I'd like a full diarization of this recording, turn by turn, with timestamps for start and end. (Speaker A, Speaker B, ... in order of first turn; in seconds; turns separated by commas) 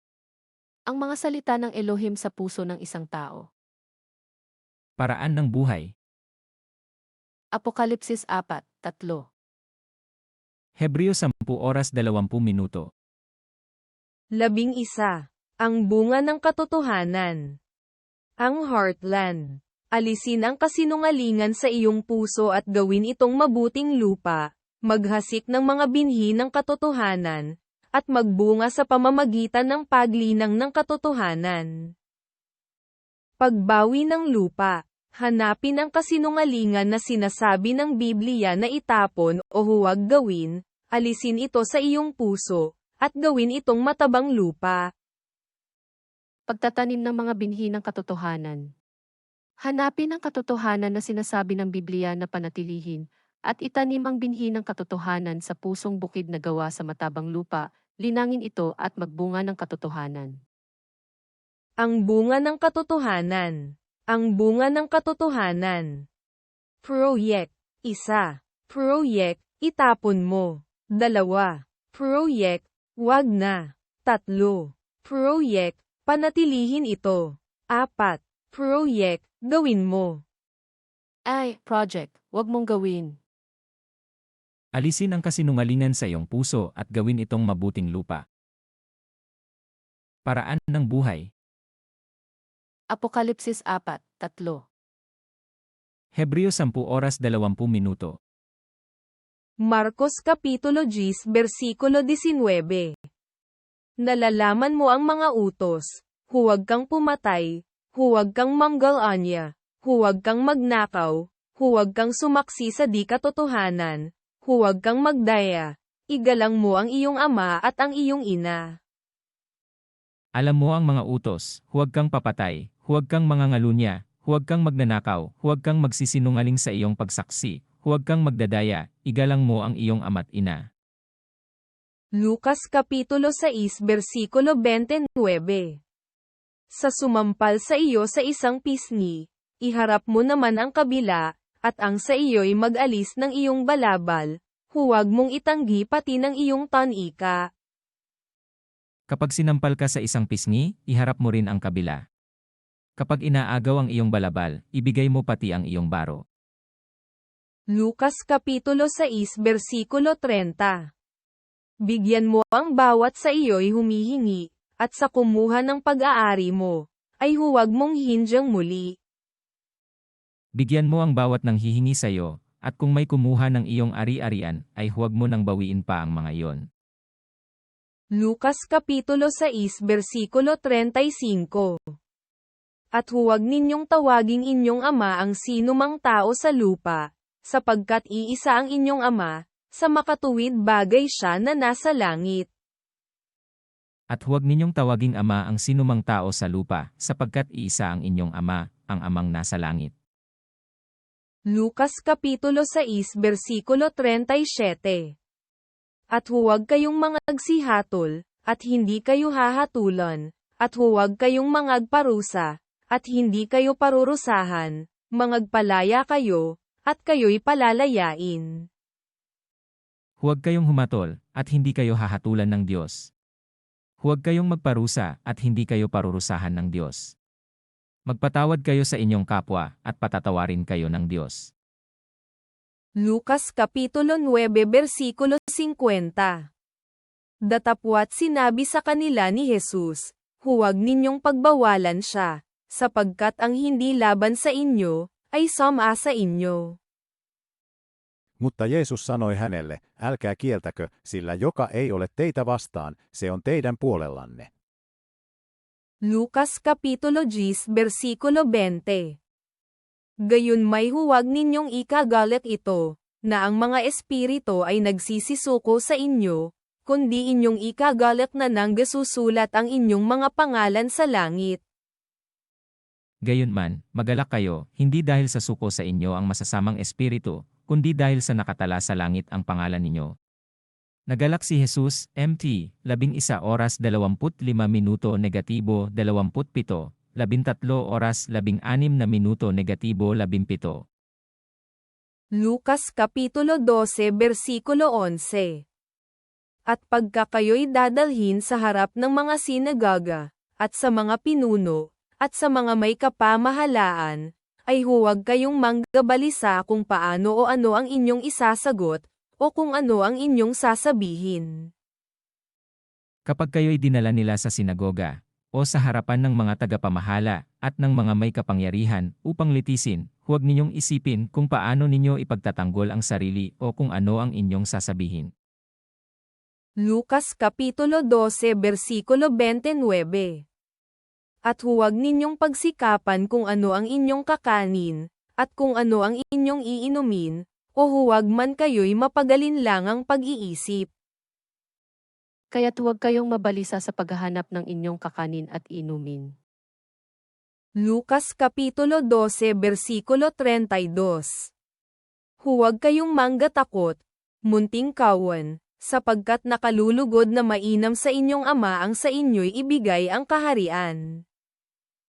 Speaker A: 0.9-3.4, Speaker B: 5.0-5.9, Speaker A: 7.5-9.2, Speaker B: 10.8-12.9, Speaker C: 14.4-17.4, Speaker C: 18.4-27.4, Speaker C: 27.9-31.7, Speaker C: 33.4-44.8, Speaker A: 46.5-48.6, Speaker A: 49.6-60.3, Speaker C: 61.8-63.6, Speaker C: 64.1-65.9, Speaker C: 66.8-80.2, Speaker A: 81.3-83.1, Speaker B: 84.7-88.2, Speaker B: 90.2-91.2, Speaker A: 92.9-94.6, Speaker B: 96.2-98.1, Speaker C: 99.6-102.9, Speaker C: 104.0-118.6, Speaker B: 120.4-130.6, Speaker C: 132.2-135.7, Speaker C: 136.7-147.4, Speaker B: 149.1-152.0, Speaker B: 153.0-156.2, Speaker C: 157.7-160.8, Speaker C: 161.9-168.9, Speaker B: 170.6-176.6, Speaker C: 178.2-181.8, Speaker C: 182.9-192.5, Speaker B: 194.1-199.9, Speaker C: 201.5-205.1, Speaker C: 206.1-218.5, Speaker B: 220.2-223.1, Speaker B: 224.0-227.1, Speaker B: 228.1-231.5, Speaker C: 233.0-236.4, Speaker C: 237.5-246.7, Speaker D: 248.4-254.5, Speaker C: 256.1-259.1, Speaker C: 260.3-271.6, Speaker B: 273.2-280.1, Speaker B: 281.1-290.8, Speaker C: 292.4-295.6, Speaker C: 296.7-311.5, Speaker B: 313.3-325.3, Speaker C: 326.8-330.4, Speaker C: 331.5-340.9, Speaker A: 342.5-346.3, Speaker C: 347.8-351.5, Speaker C: 352.4-361.0